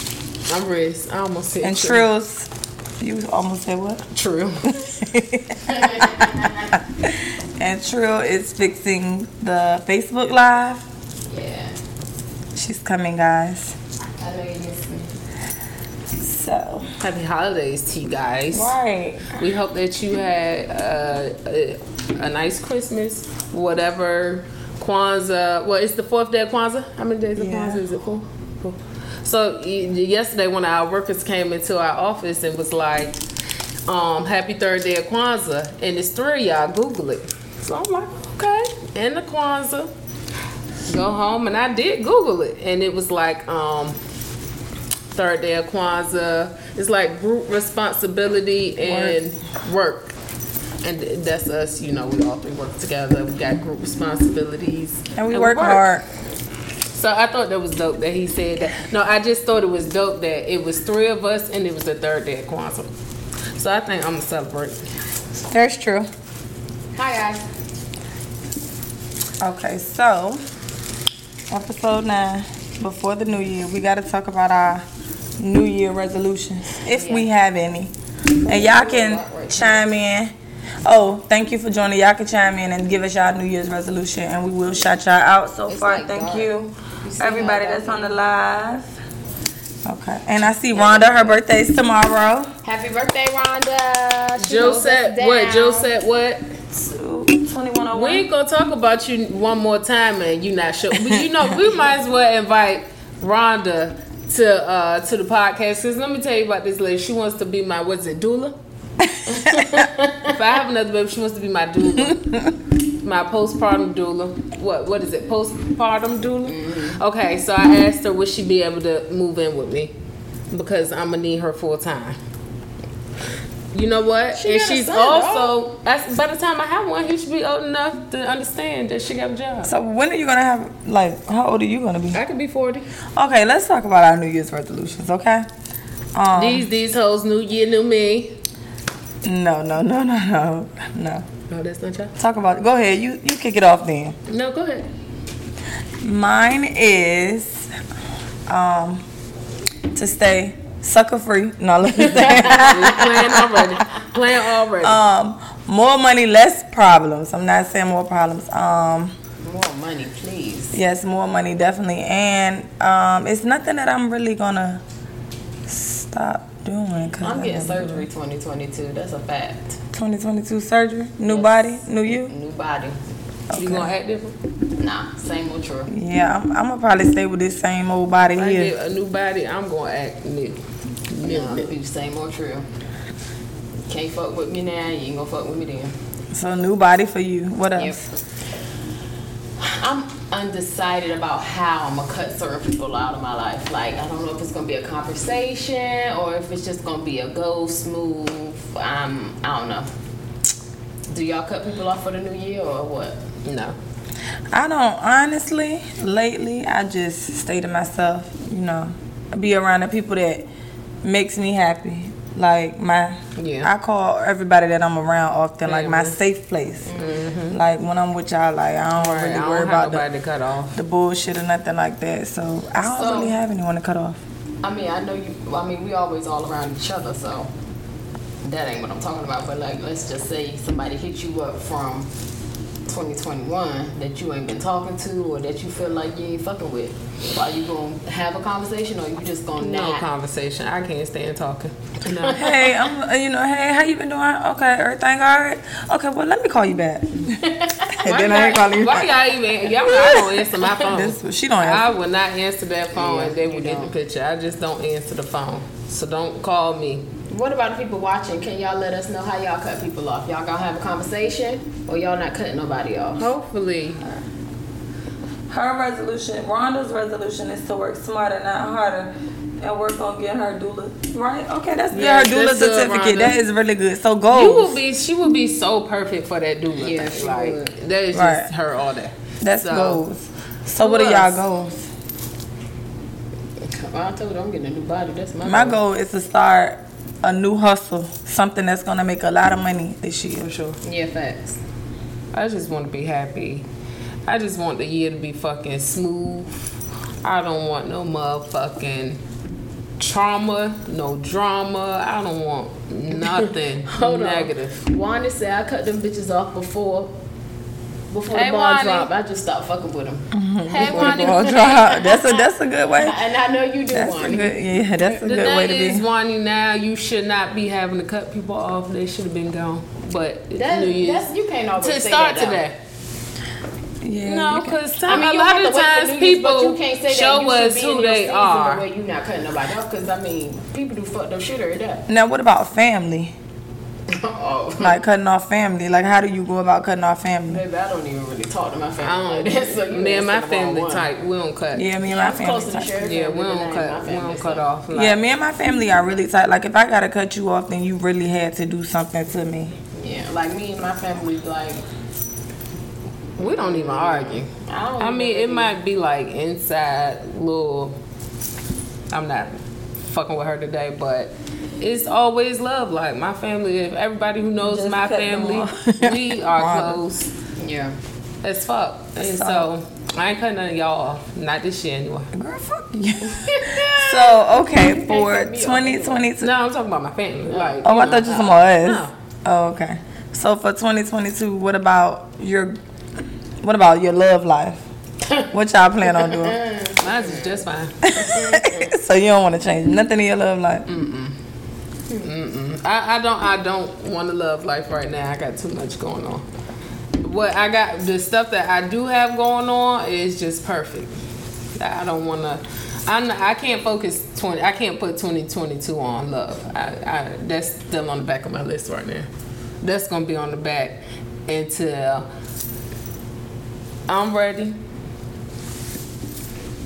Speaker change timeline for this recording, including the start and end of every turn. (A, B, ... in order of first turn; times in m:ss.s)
0:00.5-0:02.1 A
0:01.6-0:04.0 B
0:04.1-0:04.7 A
0:04.7-0:06.5 B
0:05.7-0:06.8 C
0:07.0-0:10.8 B
0:11.3-0:11.8 C
0:12.6-0:13.8 B
0:14.2-0:15.1 C
0:16.2-0:16.9 B
0:17.0-0:18.7 A
0:18.5-0:19.4 B
0:19.4-0:33.2 A
0:27.4-0:27.8 B
0:33.9-0:39.9 A
0:40.9-0:44.0 A
0:45.1-0:50.1 A
0:48.8-0:49.2 B
0:50.8-0:56.0 A
0:55.2-0:56.0 B
0:56.9-1:02.9 A
1:03.6-1:04.9 A
1:05.5-1:06.1 B
1:06.9-1:07.4 C
1:09.4-1:10.4 B
1:11.5-1:14.8 B
1:15.4-1:17.9 B
1:16.9-1:17.3 C
1:18.4-1:19.8 C
1:18.4-1:20.3 B
1:20.8-1:28.8 B
1:25.7-1:26.5 C
1:27.0-1:28.2 C
1:29.9-1:32.5 B
1:30.7-1:31.4 C
1:32.6-1:35.9 C
1:34.4-1:36.4 A
1:36.8-1:38.2 B
1:37.9-1:48.6 A
1:49.0-1:49.7 B
1:49.4-1:50.3 C
1:50.2-1:52.5 A
1:53.0-1:59.9 A
1:56.5-1:57.0 C
2:00.5-2:02.2 A
2:03.7-2:09.7 A
2:04.4-2:05.6 C
2:09.6-2:12.2 B
2:12.1-2:12.9 A
2:13.2-2:15.5 B
2:16.2-2:16.7 B
2:16.3-2:18.4 A
2:19.2-2:21.2 B
2:21.5-2:22.1 A
2:22.2-2:24.2 B
2:24.3-2:24.9 A
2:26.0-2:27.7 B
2:28.5-2:29.0 B
2:29.9-2:33.7 B
2:32.3-2:35.0 A
2:34.8-2:39.1 B
2:39.4-2:40.8 C
2:40.7-2:44.8 B
2:45.7-2:48.1 B
2:47.2-2:49.8 C
2:49.9-2:52.3 B
2:51.3-2:53.0 C
2:53.5-2:53.9 B
2:53.6-2:54.4 A
2:54.8-2:55.9 C
2:55.9-2:58.7 B
2:58.4-3:01.7 A
3:01.2-3:02.7 C
3:03.9-3:06.0 C
3:06.3-3:08.0 B
3:07.8-3:08.0 C
3:09.6-3:19.9 C
3:21.1-3:23.2 C
3:23.4-3:23.8 A
3:24.5-3:30.5 B
3:31.0-3:36.9 B
3:33.4-3:33.7 A
3:35.6-3:36.2 A
3:36.9-3:37.2 C
3:37.0-3:37.6 A
3:37.5-3:40.0 B
3:39.0-3:40.8 A
3:40.8-3:44.2 B
3:42.8-3:43.4 C
3:44.6-3:47.5 C
3:48.4-3:52.1 C
3:52.9-4:00.0 C
3:59.6-4:02.5 A
4:02.1-4:02.7 C
4:02.4-4:07.3 B
4:07.4-4:08.2 C
4:07.9-4:09.1 B
4:08.1-4:17.0 A
4:09.8-4:11.9 B
4:12.9-4:13.9 C
4:17.3-4:23.3 C
4:23.2-4:24.0 A
4:25.5-4:34.8 B
4:31.9-4:33.4 A
4:34.3-4:40.0 A
4:36.8-4:37.7 C
4:38.1-4:38.5 B
4:39.4-4:41.8 B
4:40.8-4:41.4 A
4:43.6-4:45.8 C
4:45.4-4:50.5 B
4:50.4-4:50.8 A
4:50.8-4:51.6 C
4:52.3-4:53.6 A
4:54.3-4:56.6 A
4:57.2-4:59.2 A
5:00.0-5:04.9 A
5:03.9-5:07.1 C
5:08.1-5:12.1 C
5:08.3-5:09.1 A
5:10.3-5:13.2 B
5:10.7-5:12.0 A
5:13.0-5:14.6 C
5:13.9-5:16.0 B
5:15.1-5:21.3 A
5:20.6-5:22.6 C
5:21.8-5:22.8 A
5:24.0-5:24.9 B
5:24.2-5:28.8 A
5:25.1-5:32.0 C
5:32.1-5:33.3 B
5:34.1-5:35.0 C
5:34.8-5:37.6 B
5:37.5-5:41.1 C
5:39.0-5:41.9 A
5:41.7-5:42.9 B
5:42.1-5:44.6 C
5:43.0-5:45.2 A
5:44.9-5:49.8 B
5:50.0-5:51.8 C
5:53.4-5:55.7 C
5:53.4-5:58.0 A
5:59.1-6:07.3 A
6:04.6-6:07.0 B
6:07.6-6:08.0 C
6:08.4-6:12.3 A
6:09.2-6:09.7 B
6:12.3-6:16.5 B
6:13.4-6:16.2 C
6:16.4-6:19.1 A
6:17.5-6:17.8 C
6:17.8-6:22.8 B
6:23.6-6:24.8 B
6:25.5-6:26.6 B
6:26.1-6:27.6 C
6:27.0-6:28.0 A
6:28.0-6:30.9 B
6:28.2-6:28.9 C
6:30.9-6:31.4 A
6:32.2-6:36.4 A
6:37.2-6:41.2 A
6:41.8-6:49.3 A
6:49.8-6:52.3 A
6:54.1-6:54.8 A